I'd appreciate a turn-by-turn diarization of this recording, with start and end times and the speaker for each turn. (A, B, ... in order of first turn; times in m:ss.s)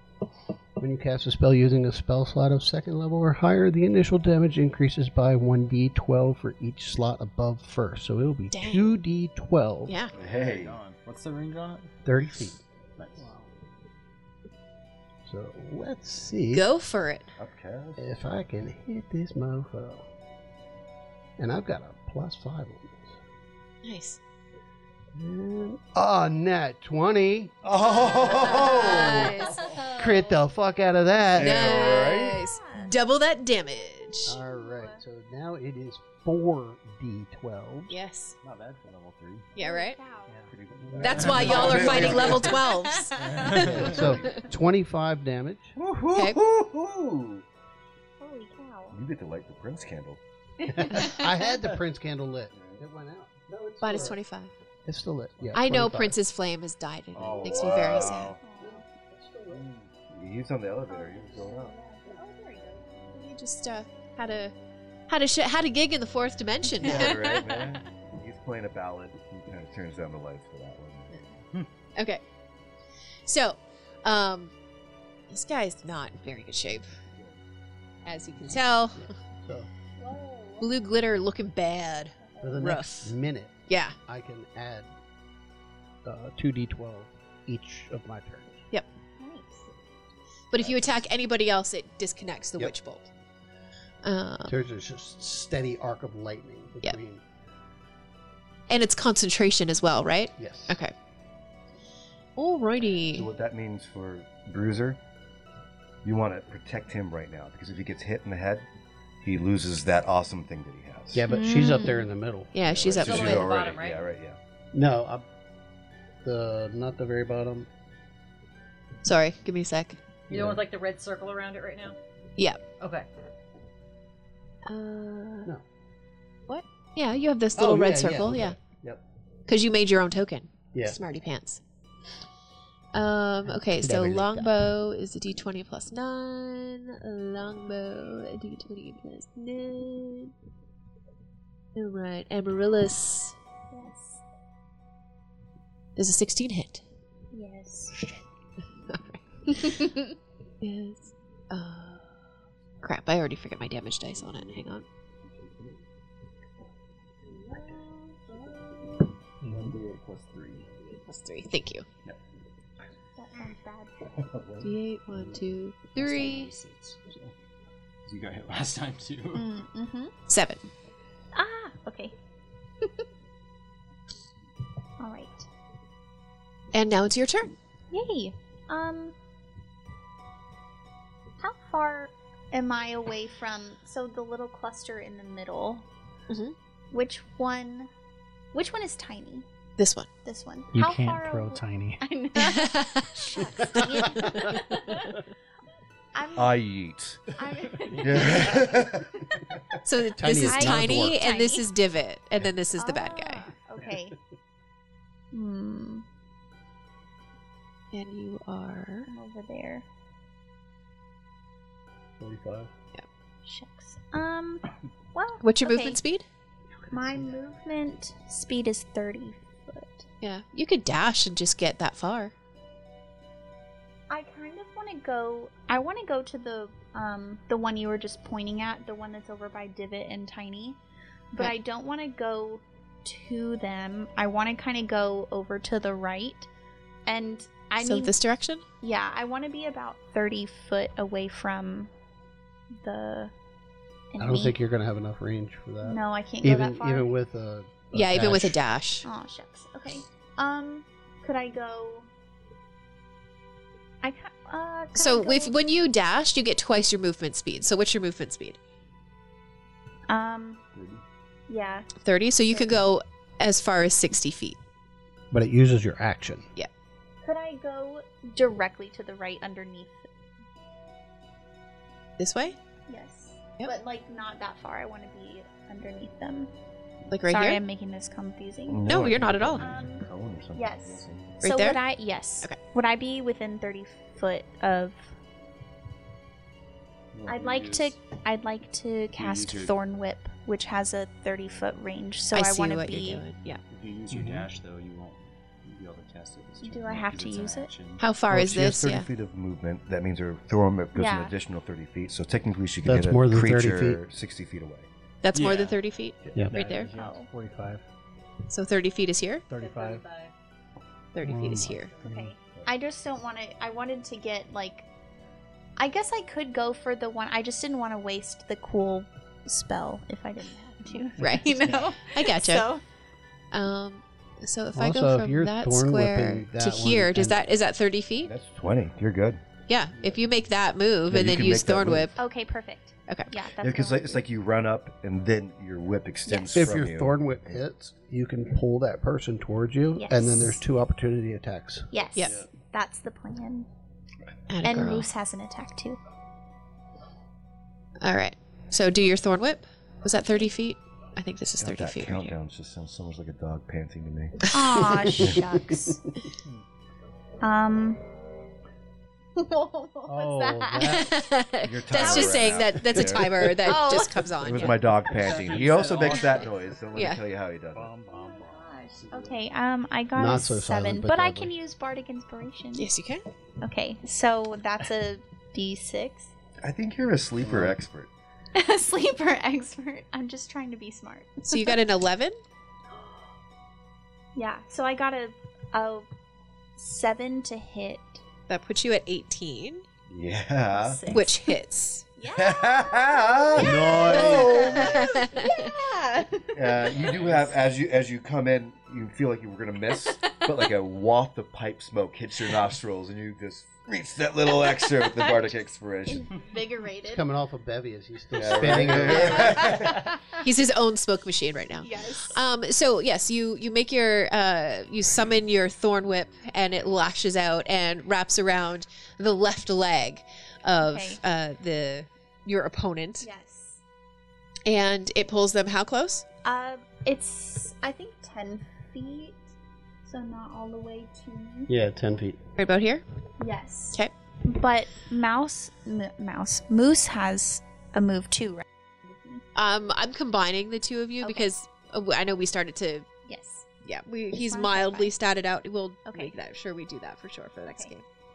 0:00.8-0:10.0 A
0:08.5-0:09.0 B
0:09.9-0:10.1 B
0:10.1-0:10.8 C
0:10.1-0:11.9 D
0:12.0-0:12.6 A
0:13.0-0:13.3 D
0:13.2-0:13.5 E
0:15.3-0:16.7 A
0:16.5-0:17.3 B
0:17.4-0:18.1 C
0:18.0-0:20.0 A
0:21.4-0:23.2 A
0:23.8-0:24.2 B
0:25.2-0:27.5 A
0:27.6-0:29.5 C
0:28.3-0:29.7 B
0:28.3-0:30.4 F
0:29.4-0:30.0 D
0:29.9-0:31.7 A
0:31.3-0:32.4 C
0:31.4-0:34.4 B
0:31.8-0:32.9 F
0:34.3-0:35.0 F
0:34.3-0:38.0 A
0:37.9-0:38.4 B
0:38.4-0:39.5 D
0:39.6-0:40.0 B
0:39.6-0:40.4 F
0:40.5-0:42.6 C
0:40.9-0:42.4 D
0:41.0-0:44.1 B
0:42.3-0:43.7 F
0:43.2-0:44.0 D
0:43.5-0:45.8 A
0:45.8-0:47.5 C
0:46.2-0:46.4 B
0:48.2-0:49.0 F
0:48.9-0:50.2 C
0:50.7-0:54.2 A
0:50.9-0:51.2 B
0:52.5-0:52.8 C
0:53.8-0:54.5 B
0:54.9-0:56.2 A
0:55.5-0:58.3 B
0:57.2-0:58.4 C
0:57.2-0:58.4 D
0:58.4-0:58.8 F
0:58.6-0:59.6 A
0:59.5-1:01.8 C
1:00.9-1:02.9 F
1:03.1-1:04.6 B
1:05.1-1:07.3 B
1:06.8-1:11.2 C
1:07.2-1:07.6 F
1:12.0-1:12.2 B
1:13.2-1:14.5 B
1:15.3-1:17.0 B
1:17.1-1:17.4 C
1:18.0-1:19.1 B
1:19.0-1:19.7 A
1:20.0-1:20.6 F
1:20.6-1:23.1 B
1:22.2-1:22.6 F
1:22.4-1:24.9 A
1:23.7-1:24.0 B
1:26.0-1:28.6 A
1:29.2-1:29.7 F
1:30.5-1:33.1 B
1:34.0-1:34.6 B
1:34.5-1:37.2 A
1:38.7-1:40.9 B
1:40.4-1:40.8 A
1:42.4-1:43.3 B
1:43.0-1:45.0 C
1:46.0-1:48.7 C
1:49.2-1:51.2 C
1:51.1-1:52.6 A
1:51.3-1:53.5 B
1:51.3-1:51.7 F
1:52.7-1:54.4 C
1:53.0-1:54.0 G
1:54.7-1:55.3 A
1:56.2-1:57.7 A
1:59.0-2:00.0 B
2:00.3-2:00.6 A
2:00.3-2:02.0 G
2:02.4-2:02.6 B
2:02.8-2:03.1 G
2:04.7-2:05.5 B
2:06.5-2:08.6 B
2:07.6-2:09.0 A
2:09.5-2:11.6 B
2:10.7-2:11.0 A
2:12.9-2:20.3 B
2:13.8-2:14.6 A
2:21.8-2:23.4 B
2:23.7-2:24.2 F
2:26.0-2:26.8 B
2:27.3-2:28.0 F
2:28.9-2:32.1 B
2:32.8-2:34.9 B
2:35.3-2:35.8 D
2:38.3-2:38.7 D
2:39.4-2:39.8 E
2:39.4-2:40.8 D
2:41.1-2:41.9 B
2:43.2-2:44.1 F
2:44.3-2:44.6 C
2:44.6-2:46.5 B
2:45.1-2:45.4 D
2:46.0-2:47.3 D
2:48.1-2:49.5 D
2:49.3-2:50.1 F
2:50.3-2:50.6 B
2:51.3-2:52.2 F
2:55.0-2:55.5 F
2:56.7-2:57.5 B
2:57.9-2:59.2 F
3:01.4-3:05.9 F
3:06.3-3:06.6 B
3:06.9-3:07.9 F
3:08.5-3:09.5 F
3:09.8-3:10.1 B
3:10.2-3:15.2 F
3:10.7-3:12.0 E
3:12.4-3:13.9 B
3:16.1-3:16.6 F
3:16.3-3:17.3 C
3:17.3-3:19.4 F
3:18.0-3:19.2 C
3:18.0-3:18.6 A
3:19.8-3:23.5 B
3:20.2-3:21.2 A
3:20.4-3:21.7 F
3:22.8-3:24.2 F
3:25.3-3:26.0 F
3:27.9-3:29.1 B
3:29.1-3:29.8 F
3:32.2-3:32.7 A
3:33.4-3:36.0 F
3:35.4-3:36.2 B
3:36.8-3:37.4 A
3:36.9-3:40.1 F
3:40.2-3:42.3 B
3:44.1-3:50.8 F
3:51.3-3:56.5 F
3:57.1-3:58.2 F
3:57.8-3:58.6 B
3:58.8-4:01.9 F
4:02.8-4:03.3 F
4:04.1-4:04.6 F
4:04.2-4:08.6 A
4:05.8-4:07.2 F
4:07.9-4:09.1 B
4:09.0-4:12.1 F
4:14.0-4:15.6 F
4:15.0-4:18.6 B
4:20.1-4:20.6 F
4:20.8-4:21.0 D
4:21.5-4:21.9 F
4:22.0-4:24.6 B
4:22.5-4:22.8 F
4:25.3-4:26.5 A
4:27.2-4:30.1 F
4:32.2-4:32.6 B
4:32.9-4:36.5 F
4:37.1-4:37.6 B
4:37.3-4:38.9 F
4:38.7-4:41.4 C
4:38.9-4:39.7 B
4:39.5-4:45.1 F
4:41.4-4:41.8 B
4:47.1-4:47.9 D
4:47.3-4:53.3 F
4:49.2-4:49.7 D
4:52.3-4:53.6 B
4:53.7-4:58.0 D
4:54.1-4:54.4 A
4:56.6-4:57.7 F
4:58.0-4:59.1 B
4:58.3-5:04.9 C
5:01.0-5:01.4 F
5:02.8-5:04.0 A
5:05.2-5:06.9 B
5:05.3-5:05.8 D
5:06.5-5:07.8 E
5:06.9-5:07.3 F
5:08.5-5:09.4 B
5:09.5-5:10.0 E
5:09.6-5:10.3 G
5:11.1-5:11.9 B
5:11.2-5:11.8 A
5:11.7-5:12.2 G
5:12.0-5:14.9 F
5:15.8-5:22.8 F
5:21.2-5:22.7 B
5:23.5-5:28.3 B
5:24.7-5:27.4 A
5:28.2-5:29.4 C
5:29.7-5:32.2 B
5:31.1-5:32.1 C
5:32.2-5:34.2 F
5:33.6-5:37.2 C
5:36.3-5:36.7 F
5:36.5-5:41.9 A
5:40.0-5:40.6 F
5:41.9-5:43.7 F
5:42.2-5:42.4 B
5:42.2-5:42.5 D
5:44.5-5:45.1 B
5:44.6-5:46.0 F
5:48.0-5:52.4 B
5:51.6-5:54.4 C
5:54.4-5:55.1 B
5:54.5-5:56.0 F
5:55.3-5:55.9 A
5:57.4-5:58.0 F
5:59.4-6:01.1 F
6:00.1-6:01.1 A
6:00.8-6:04.8 B
6:01.6-6:03.5 C
6:02.0-6:02.4 F
6:03.6-6:04.3 F
6:04.4-6:07.9 C
6:05.1-6:06.6 D
6:06.9-6:07.2 B
6:07.8-6:08.7 E
6:08.6-6:08.9 G
6:09.0-6:09.4 D
6:09.1-6:12.9 F
6:10.2-6:11.5 A
6:12.8-6:13.2 B
6:13.6-6:16.3 F
6:16.6-6:18.1 C
6:17.4-6:17.8 A
6:18.6-6:21.8 F
6:21.4-6:22.4 B
6:24.4-6:26.1 F
6:26.8-6:28.2 F
6:28.5-6:29.8 B
6:30.1-6:31.2 C
6:30.7-6:31.3 F
6:31.1-6:32.1 B
6:32.2-6:37.4 F
6:32.3-6:35.1 C
6:33.6-6:34.7 A
6:34.8-6:35.7 B
6:36.5-6:46.4 C
6:37.1-6:37.4 D
6:44.7-6:45.4 F
6:46.1-6:47.3 F
6:47.1-6:49.7 A
6:48.4-6:50.1 C
6:48.9-6:50.4 F
6:50.4-7:03.3 B
6:51.8-6:52.4 F
7:00.8-7:01.2 F
7:03.2-7:03.8 F
7:04.7-7:06.2 B
7:06.4-7:09.4 F
7:10.0-7:11.7 F
7:11.7-7:12.4 A
7:12.6-7:13.0 B
7:13.4-7:19.4 F
7:19.6-7:23.1 B
7:21.2-7:21.5 F
7:23.3-7:23.7 F
7:23.8-7:28.0 B
7:24.3-7:25.2 F
7:26.1-7:26.3 F
7:27.7-7:27.9 F